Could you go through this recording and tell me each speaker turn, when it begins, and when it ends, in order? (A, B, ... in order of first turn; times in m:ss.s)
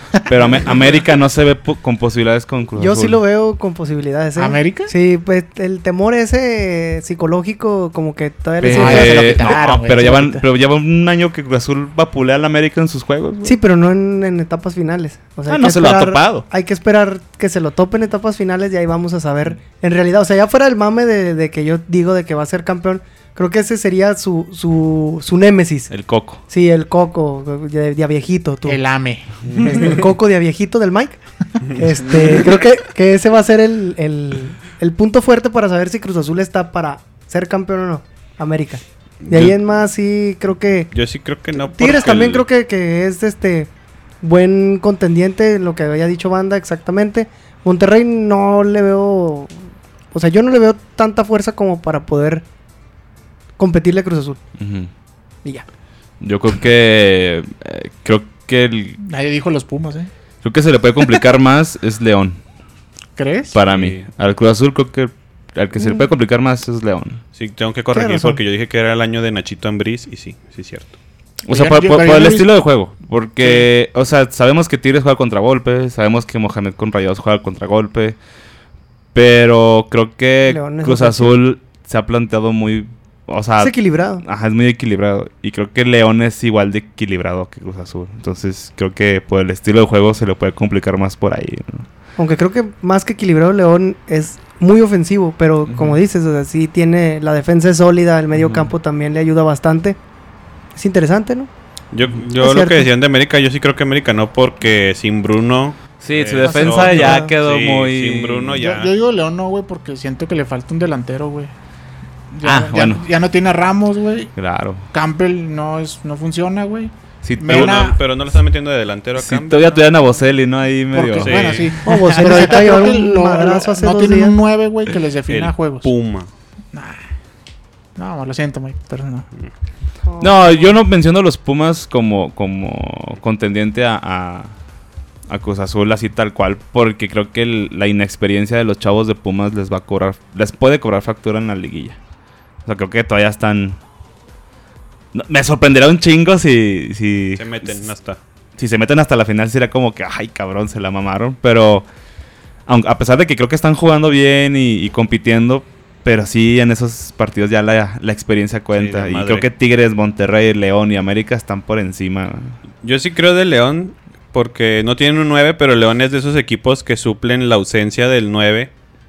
0:00.2-0:03.2 A
0:02.8-0:09.5 B
0:04.4-0:04.9 C
0:08.6-0:13.6 A
0:08.7-0:10.4 C
0:13.4-0:25.9 B
0:15.5-0:16.4 A
0:25.9-0:26.4 A
0:26.5-0:28.8 B
0:28.6-0:29.9 C
0:29.5-0:29.9 A
0:29.6-0:40.9 B
0:39.2-0:39.6 D
0:40.9-0:42.4 D
0:41.6-0:43.7 B
0:44.2-0:49.6 B
0:50.1-0:52.4 B
0:53.6-0:54.4 B
0:54.6-0:54.9 A
0:56.2-0:59.0 A
0:59.0-1:00.1 C
1:00.4-1:02.4 A
1:03.2-1:03.6 C
1:03.5-1:07.2 A
1:03.6-1:04.0 D
1:07.3-1:10.9 D
1:07.9-1:08.4 B
1:11.4-1:18.2 A
1:11.5-1:12.5 C
1:19.1-1:31.8 A
1:20.4-1:21.3 B
1:23.6-1:24.2 B
1:32.2-1:40.0 B
1:35.7-1:36.0 A
1:38.3-1:38.7 A
1:40.7-1:41.5 B
1:41.9-1:48.9 D
1:42.4-1:42.9 B
1:46.0-1:48.6 A
1:46.4-1:47.3 B
1:48.6-1:51.5 C
1:52.3-1:54.3 C
1:52.4-1:53.0 A
1:54.4-1:54.8 A
1:54.9-1:58.0 C
1:57.2-1:57.9 A
1:57.4-1:59.9 D
1:59.2-2:02.4 A
2:00.9-2:05.9 C
2:01.2-2:01.8 D
2:01.8-2:04.4 B
2:05.3-2:06.3 D
2:06.7-2:07.0 C
2:08.0-2:09.3 C
2:10.0-2:10.7 B
2:10.2-2:14.5 A
2:15.3-2:22.0 A
2:22.6-2:23.8 A
2:25.1-2:27.9 A
2:27.4-2:28.2 D
2:28.6-2:31.8 A
2:32.7-2:42.6 A
2:38.7-2:39.4 D
2:42.8-2:48.7 D